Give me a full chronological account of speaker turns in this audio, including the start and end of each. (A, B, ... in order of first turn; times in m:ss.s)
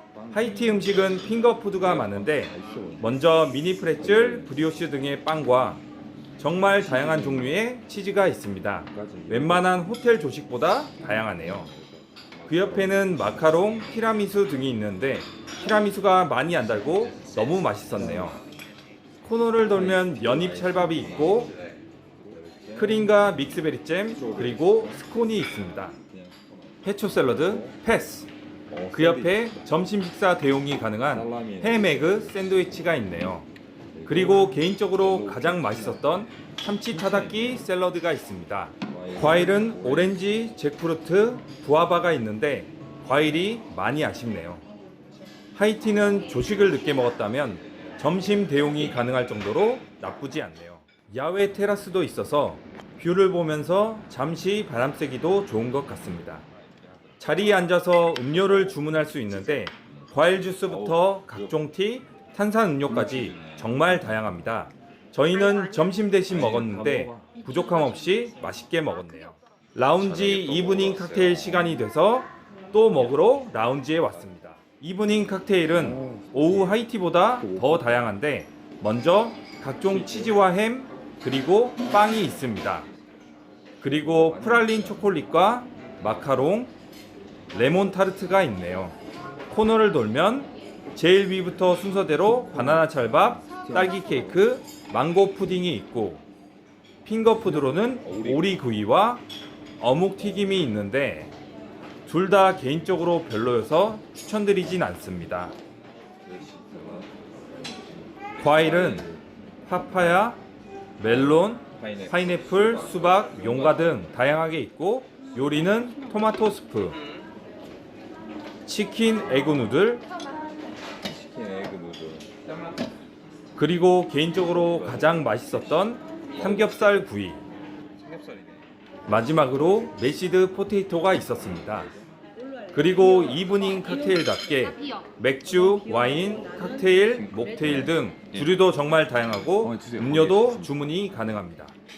0:00.1-0:03.2 A
0:00.3-0:05.8 B
0:04.0-0:04.6 A
0:06.4-0:11.7 B
0:06.7-0:07.6 A
0:08.9-0:09.8 A
0:11.3-0:13.4 A
0:12.5-0:18.4 B
0:17.9-0:18.4 A
0:19.2-0:21.6 B
0:19.7-0:25.1 A
0:22.8-0:26.0 B
0:26.0-0:27.8 A
0:26.8-0:28.3 B
0:28.7-0:29.7 A
0:28.9-0:33.5 B
0:31.1-0:32.5 A
0:33.9-0:36.2 A
0:34.0-0:44.6 B
0:36.9-0:37.6 A
0:38.9-0:40.3 A
0:45.6-0:56.4 B
0:56.5-0:57.4 A
0:57.2-1:22.9 B
0:58.3-1:01.6 A
1:02.9-1:04.5 A
1:06.3-1:07.4 A
1:10.0-1:11.9 A
1:13.2-1:14.2 A
1:15.6-1:16.8 A
1:17.4-1:18.1 A
1:19.8-1:20.5 A
1:23.8-1:26.7 B
1:23.9-1:25.2 A
1:27.5-1:29.0 B
1:29.5-1:36.2 B
1:32.5-1:34.5 A
1:37.0-1:39.2 B
1:37.4-1:38.6 A
1:39.8-1:41.3 B
1:42.1-1:45.5 B
1:46.2-1:47.1 A
1:47.8-1:49.2 A
1:48.4-1:49.1 B
1:49.7-1:50.4 B
1:51.0-1:57.0 B
1:51.0-1:54.2 A
1:58.7-2:00.0 B
2:01.0-2:02.5 A
2:03.6-2:07.4 B
2:04.5-2:07.1 A
2:08.0-2:09.9 A
2:09.1-2:11.9 B
2:11.3-2:12.1 A
2:12.7-2:21.8 B
2:17.0-2:18.5 A
2:19.5-2:20.9 A